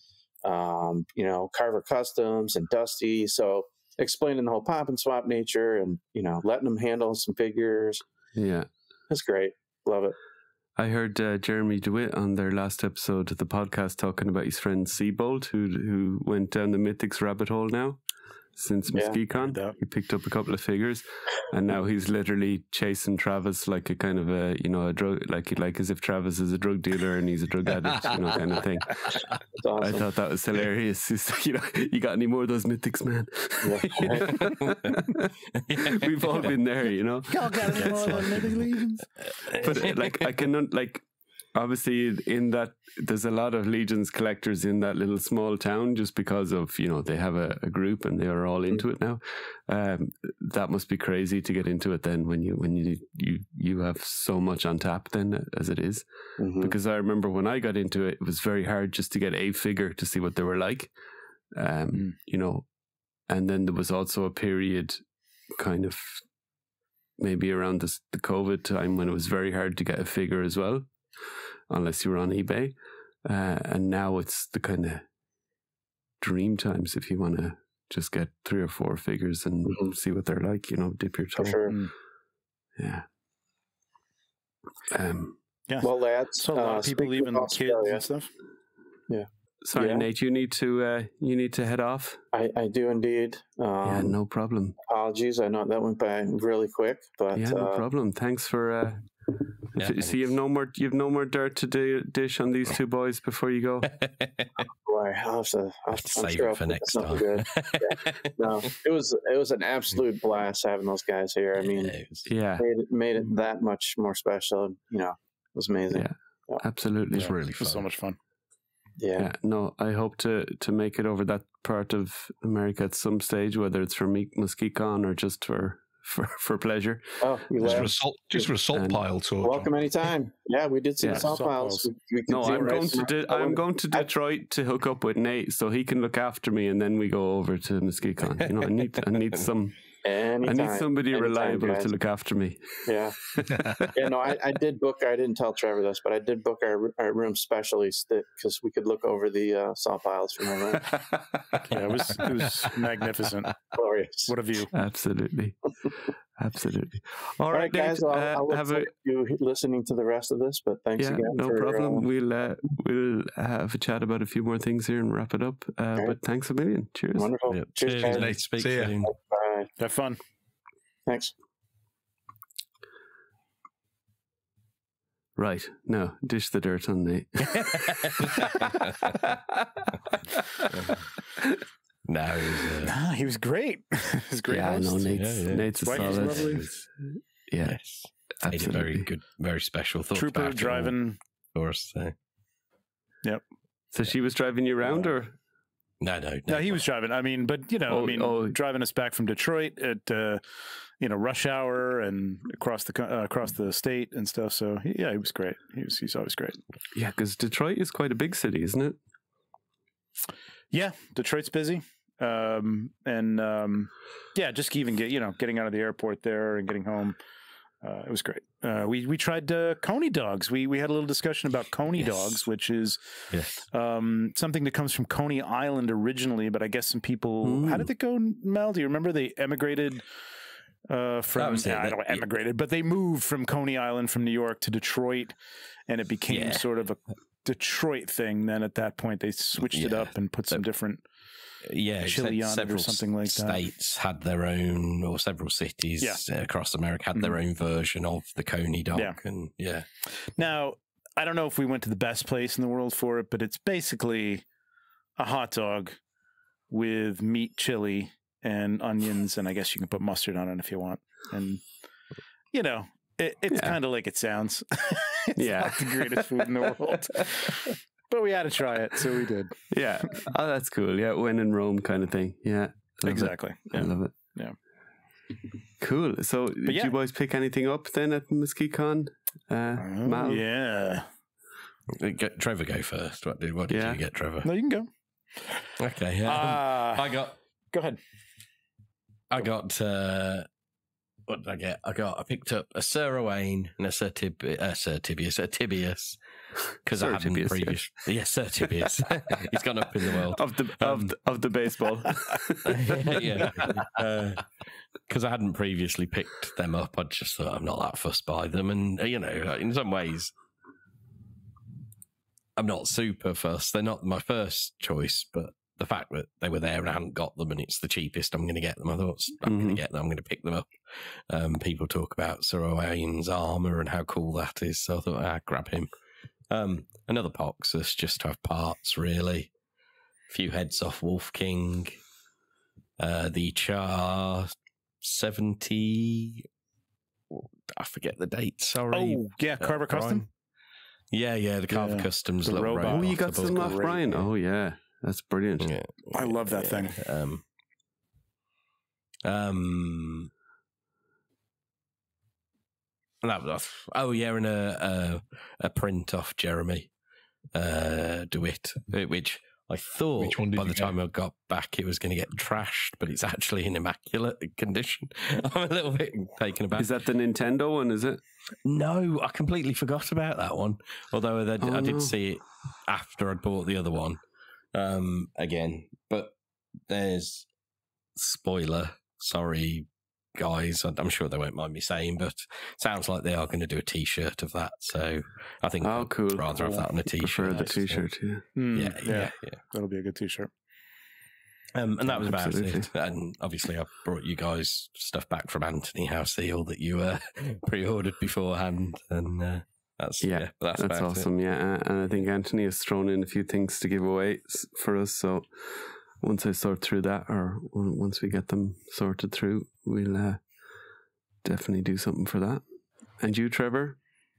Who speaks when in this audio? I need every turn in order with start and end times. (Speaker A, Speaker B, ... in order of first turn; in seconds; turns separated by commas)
Speaker A: 0.4-8.0, Speaker B: 8.3-8.7, Speaker A: 9.1-10.2, Speaker B: 10.8-18.0, Speaker B: 18.6-29.1, Speaker C: 19.3-19.7, Speaker A: 29.6-30.1, Speaker B: 29.8-38.5, Speaker A: 33.6-34.5, Speaker D: 34.6-34.9, Speaker D: 35.6-36.5, Speaker C: 37.3-39.0, Speaker D: 37.8-38.3, Speaker D: 39.2-40.2, Speaker B: 39.6-56.0, Speaker A: 56.4-56.7, Speaker B: 56.6-60.9, Speaker B: 61.5-62.7, Speaker B: 63.3-66.2, Speaker B: 67.2-70.9, Speaker B: 71.7-75.0, Speaker B: 76.2-81.8, Speaker A: 81.4-81.8, Speaker B: 82.8-83.0, Speaker B: 84.9-85.4, Speaker C: 85.7-88.3, Speaker A: 85.8-88.0, Speaker A: 89.1-90.0, Speaker B: 89.6-92.2, Speaker A: 92.3-94.2, Speaker B: 93.8-94.8, Speaker A: 94.8-97.8, Speaker B: 97.3-103.9, Speaker D: 99.8-100.2, Speaker D: 103.9-104.5, Speaker A: 104.8-112.0, Speaker D: 105.9-108.3, Speaker D: 111.5-112.3, Speaker B: 112.3-112.7, Speaker A: 112.6-116.6, Speaker B: 115.9-117.3, Speaker C: 117.1-118.2, Speaker D: 117.2-117.8, Speaker A: 119.0-119.3, Speaker B: 119.2-127.9, Speaker A: 127.2-128.5, Speaker E: 127.6-129.7, Speaker B: 128.7-129.0, Speaker A: 129.4-134.1, Speaker B: 131.0-131.3, Speaker C: 131.0-131.9, Speaker B: 132.3-139.8, Speaker C: 132.4-133.0, Speaker A: 140.0-141.9, Speaker B: 140.4-143.9, Speaker A: 142.9-143.3, Speaker A: 143.9-151.0, Speaker B: 151.0-151.6, Speaker C: 151.7-153.6, Speaker A: 153.7-154.3, Speaker C: 154.2-154.7, Speaker B: 154.7-155.6, Speaker B: 156.4-158.9, Speaker A: 157.5-162.1, Speaker B: 161.0-167.3, Speaker A: 167.2-168.3, Speaker D: 167.5-169.1, Speaker E: 168.0-169.0, Speaker A: 169.1-169.7, Speaker C: 169.8-170.2, Speaker A: 171.1-171.3, Speaker B: 175.3-177.9, Speaker D: 177.5-179.1, Speaker B: 179.1-180.4, Speaker D: 180.7-181.1, Speaker D: 182.1-182.9, Speaker C: 182.8-185.2, Speaker B: 184.5-187.8, Speaker D: 185.2-186.8, Speaker C: 185.8-186.6, Speaker D: 187.6-190.9, Speaker B: 188.4-189.1, Speaker C: 190.1-191.2, Speaker D: 191.5-192.1, Speaker B: 193.9-195.3, Speaker D: 196.0-196.8, Speaker C: 196.5-200.4, Speaker B: 197.9-198.5, Speaker C: 201.0-206.6, Speaker B: 206.9-209.0, Speaker C: 210.7-217.2, Speaker C: 217.8-230.0, Speaker D: 221.9-222.4, Speaker D: 223.3-223.6, Speaker B: 227.4-227.9, Speaker C: 230.9-235.3, Speaker D: 231.3-232.2, Speaker C: 235.9-241.0, Speaker D: 236.3-236.6, Speaker D: 239.6-240.6, Speaker D: 241.6-249.9, Speaker C: 242.0-243.6, Speaker C: 250.3-254.4, Speaker C: 255.2-256.0, Speaker C: 256.7-261.6, Speaker C: 262.5-269.5, Speaker B: 263.5-263.8, Speaker B: 265.3-266.7, Speaker B: 269.7-274.1, Speaker C: 273.1-274.5, Speaker B: 275.8-280.4, Speaker C: 276.6-276.9, Speaker C: 279.8-281.1, Speaker D: 281.9-284.5, Speaker B: 283.7-284.0, Speaker C: 284.4-284.9, Speaker D: 285.8-287.3, Speaker C: 286.2-287.2, Speaker C: 287.7-288.0, Speaker D: 289.3-290.5, Speaker D: 291.3-296.2, Speaker D: 296.8-301.1, Speaker B: 296.9-298.1, Speaker B: 300.0-303.2, Speaker D: 302.6-304.4, Speaker D: 305.1-310.3, Speaker D: 312.6-325.9, Speaker B: 319.4-319.8, Speaker D: 326.5-329.5, Speaker D: 330.3-332.0, Speaker D: 333.0-334.5, Speaker D: 335.0-336.4, Speaker D: 337.3-340.3, Speaker C: 338.9-340.2, Speaker D: 341.1-344.2, Speaker C: 341.7-344.0, Speaker B: 342.8-345.7, Speaker D: 345.6-347.4, Speaker C: 346.1-347.0, Speaker D: 349.2-350.3, Speaker D: 353.2-356.9, Speaker D: 357.5-366.9, Speaker E: 360.2-361.0, Speaker B: 366.8-368.2, Speaker D: 368.6-374.2, Speaker B: 371.6-372.1, Speaker D: 374.7-376.4, Speaker D: 376.9-377.4, Speaker D: 378.2-388.0, Speaker B: 385.8-388.4, Speaker C: 387.5-387.8, Speaker C: 388.6-390.5, Speaker D: 388.7-389.6, Speaker D: 391.7-401.3, Speaker B: 392.1-392.9, Speaker B: 400.2-410.4, Speaker B: 411.4-412.6, Speaker B: 413.2-414.0